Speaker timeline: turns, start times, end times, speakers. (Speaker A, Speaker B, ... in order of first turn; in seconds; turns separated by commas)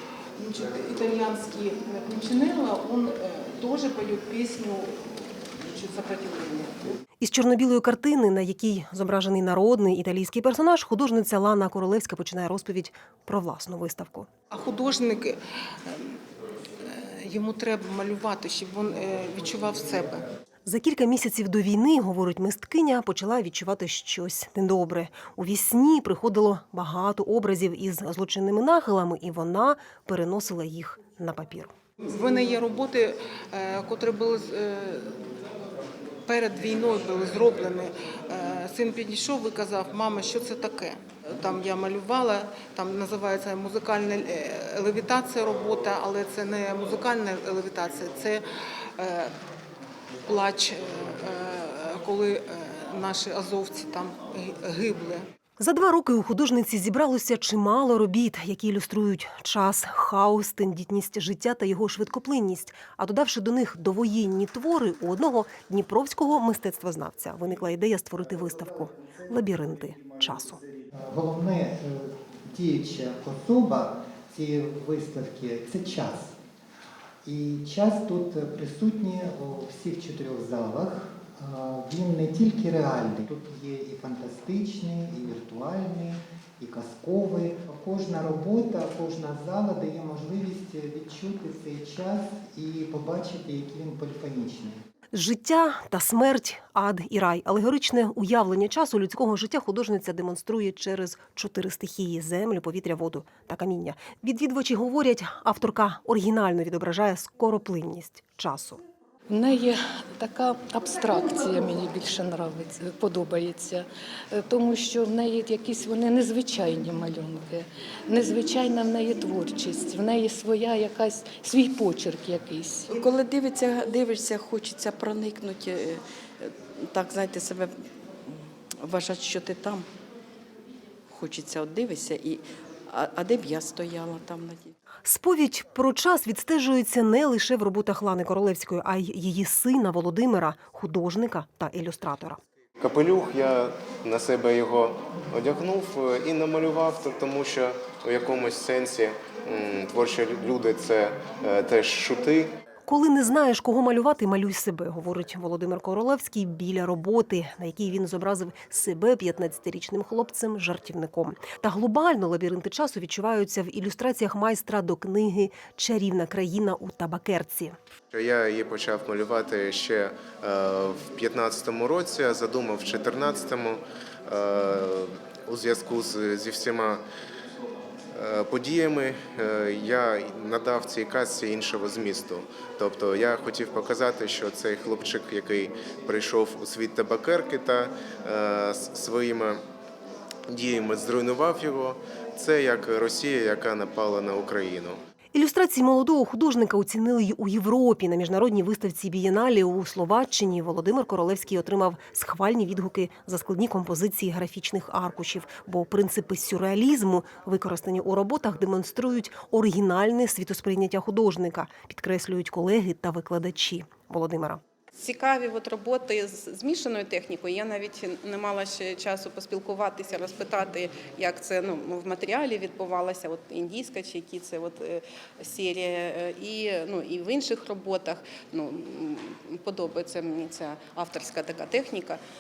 Speaker A: 0.4-6.9, Speaker B: 7.2-14.3, Speaker A: 14.5-16.2, Speaker A: 16.8-20.2, Speaker B: 20.6-31.7, Speaker A: 32.0-35.2, Speaker A: 36.3-48.4, Speaker A: 49.0-49.3, Speaker A: 50.3-55.2, Speaker B: 55.6-70.6, Speaker C: 71.0-76.3, Speaker C: 77.2-94.8, Speaker B: 95.1-108.8, Speaker D: 109.3-122.9, Speaker E: 122.9-127.8, Speaker E: 128.3-129.9, Speaker E: 131.1-134.7, Speaker B: 135.1-142.4, Speaker F: 142.8-152.5, Speaker B: 152.9-167.8, Speaker F: 168.1-177.0, Speaker F: 178.2-189.6, Speaker F: 190.5-195.0, Speaker B: 195.3-214.6, Speaker G: 214.9-232.2